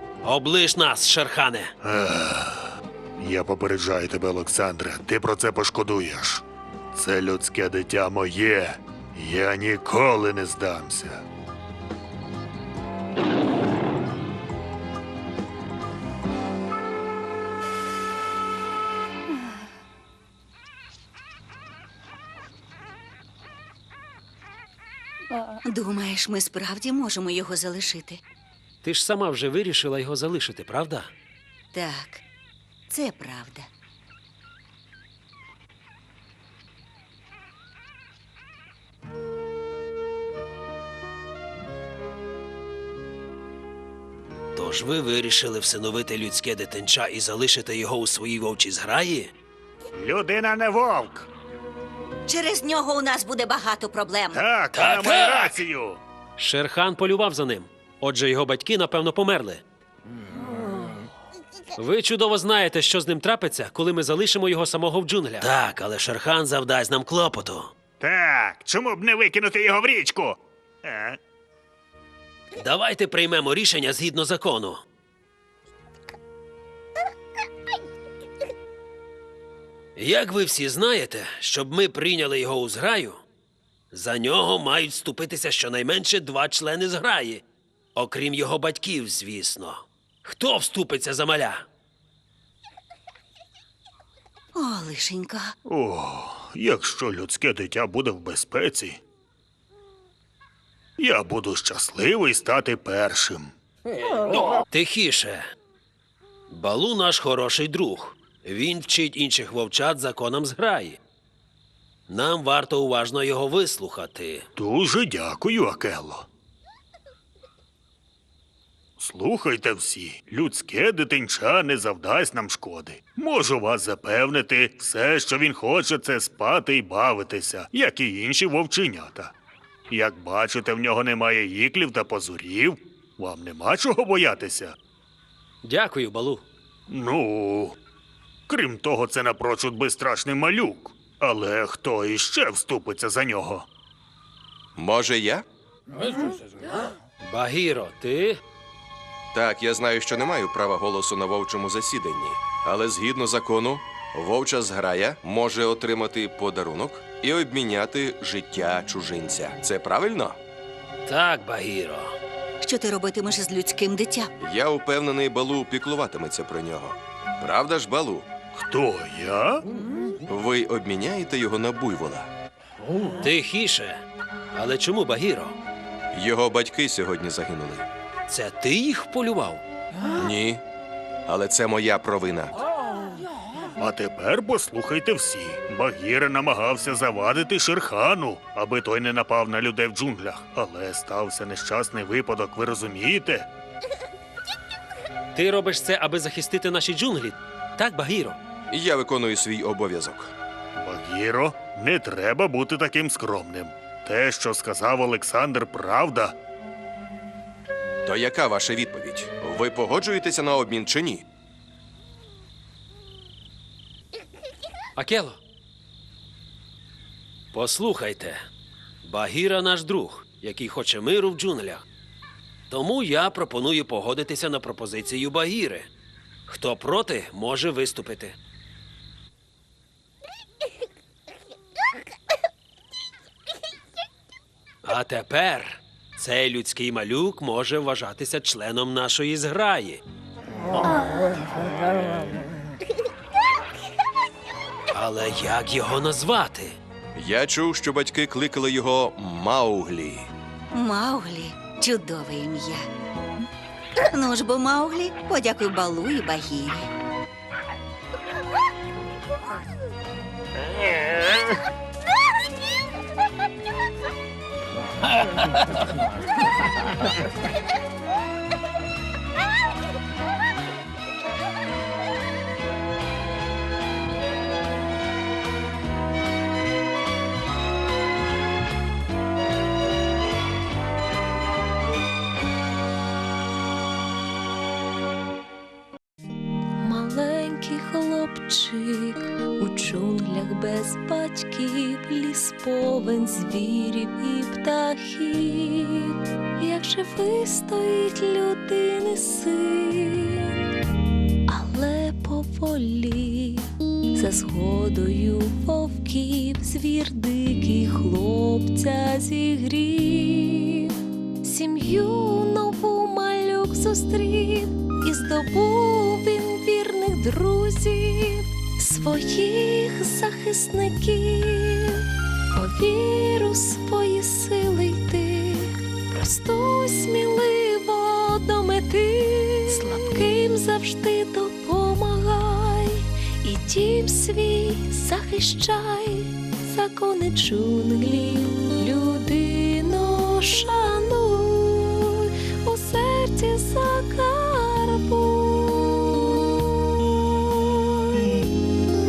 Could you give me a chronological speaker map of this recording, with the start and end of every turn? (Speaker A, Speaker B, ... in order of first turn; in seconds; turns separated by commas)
Speaker A: 0.2-1.7, Speaker B: 1.8-11.2, Speaker C: 25.6-28.2, Speaker A: 28.8-31.1, Speaker C: 31.7-32.2, Speaker C: 32.9-33.7, Speaker A: 44.5-49.3, Speaker B: 49.9-51.3, Speaker C: 52.3-54.4, Speaker B: 54.3-56.0, Speaker A: 54.7-55.6, Speaker A: 56.4-59.6, Speaker A: 61.8-67.7, Speaker B: 68.0-71.2, Speaker A: 72.6-74.8, Speaker A: 80.0-83.2, Speaker A: 83.9-87.4, Speaker A: 87.9-91.6, Speaker C: 94.5-95.5, Speaker B: 95.7-99.0, Speaker B: 101.0-103.5, Speaker A: 104.3-105.5, Speaker A: 106.5-111.0, Speaker A: 112.1-114.5, Speaker B: 114.5-116.3, Speaker B: 119.0-129.3, Speaker B: 129.9-134.8, Speaker A: 135.6-136.4, Speaker B: 136.9-137.8, Speaker B: 138.5-143.7, Speaker D: 144.7-145.4, Speaker A: 147.2-148.4, Speaker D: 149.3-160.4, Speaker A: 161.1-162.1, Speaker C: 162.6-164.3, Speaker D: 164.4-168.2, Speaker B: 168.5-169.6, Speaker D: 170.2-172.3, Speaker A: 173.0-174.0, Speaker A: 174.5-175.6, Speaker D: 176.1-177.9, Speaker A: 178.3-179.6, Speaker D: 180.1-180.6, Speaker D: 181.2-182.6, Speaker B: 183.8-193.5, Speaker A: 195.3-198.4, Speaker D: 198.7-200.3, Speaker B: 200.8-206.3, Speaker D: 208.0-211.2, Speaker A: 214.9-215.4, Speaker A: 217.5-218.4, Speaker A: 219.0-221.8, Speaker A: 222.7-225.9, Speaker A: 226.5-228.3, Speaker A: 234.8-240.0, Speaker A: 244.9-246.8, Speaker D: 247.1-250.3, Speaker C: 250.7-252.8, Speaker C: 254.0-256.9, Speaker E: 286.8-300.6, Speaker E: 301.5-346.6, Speaker E: 347.5-348.3